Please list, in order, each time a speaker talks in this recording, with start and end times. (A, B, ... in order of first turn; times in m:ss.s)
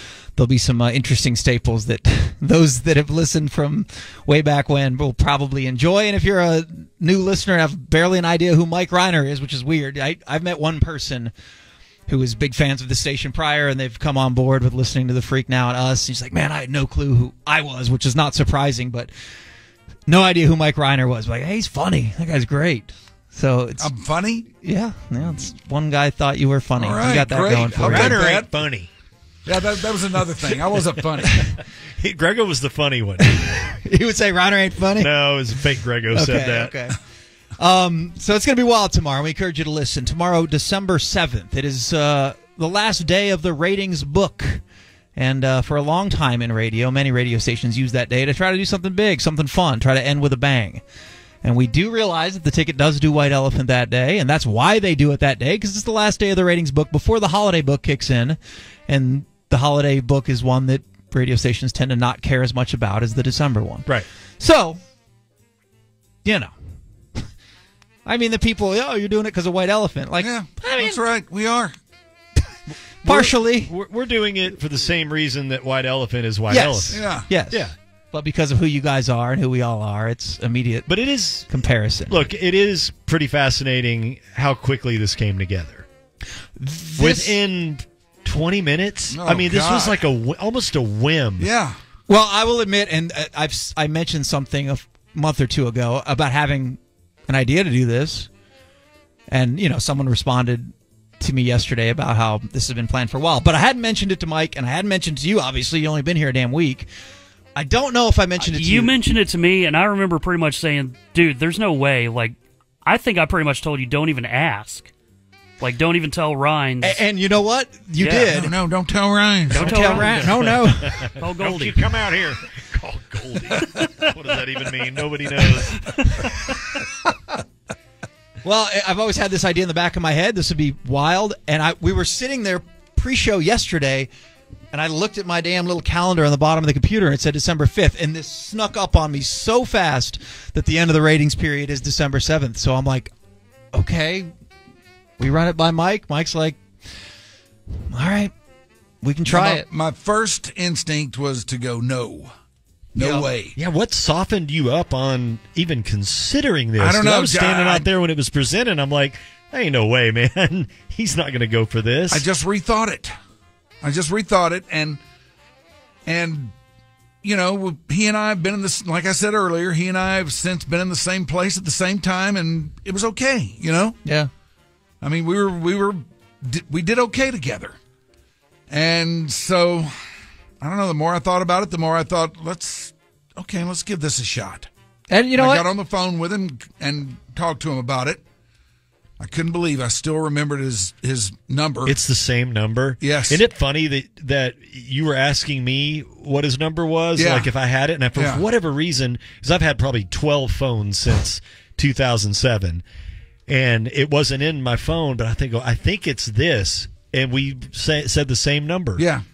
0:00.4-0:11.3 A
0:12.1-0:19.1 A
0:20.1-0:23.9 A
0:23.8-0:24.5 B
0:24.5-0:28.3 A
0:26.8-0:28.5 B
0:27.7-0:28.9 C
0:29.5-0:31.5 B
0:31.4-0:33.6 C
0:33.3-0:35.1 A
0:35.0-0:36.8 C
0:36.1-0:37.0 A
0:37.6-0:44.6 A
0:45.2-0:50.8 A
0:51.4-1:04.8 A
1:06.2-1:06.5 A
1:08.1-1:11.0 A
1:10.2-1:11.8 B
1:13.0-1:13.7 A
1:13.0-1:17.7 C
1:16.5-1:20.9 A
1:16.9-1:17.3 B
1:20.9-1:21.5 C
1:21.5-1:22.3 A
1:22.1-1:25.9 C
1:26.6-1:27.4 A
1:27.0-1:31.5 C
1:29.1-1:30.0 B
1:31.4-1:31.8 B
1:32.1-1:38.3 A
1:39.3-1:46.9 A
1:47.6-1:49.0 A
1:48.4-1:54.9 D
1:55.6-1:57.0 D
1:56.8-1:58.5 A
1:58.0-1:58.4 D
1:58.3-2:00.3 B
1:59.5-2:01.8 D
1:59.5-2:01.1 A
2:00.7-2:06.1 C
2:06.2-2:07.1 A
2:08.4-2:14.1 A
2:14.7-2:23.1 A
2:23.7-2:24.3 A
2:25.2-2:26.6 A
2:27.8-2:28.3 A
2:29.0-2:29.6 A
2:29.3-2:32.3 B
2:33.0-2:33.6 B
2:33.0-2:42.2 C
2:36.8-2:37.9 B
2:42.1-2:43.1 B
2:43.8-2:45.0 B
2:46.1-2:46.5 B
2:47.2-2:54.0 B
2:55.0-2:57.8 B
2:58.7-2:59.9 B
3:00.6-3:04.7 B
3:05.1-3:05.7 A
3:05.4-3:08.2 B
3:09.2-3:12.0 B
3:11.9-3:22.8 C
3:13.0-3:13.4 B
3:17.2-3:17.5 B
3:18.2-3:18.4 B
3:23.5-3:29.1 C
3:29.0-3:29.2 B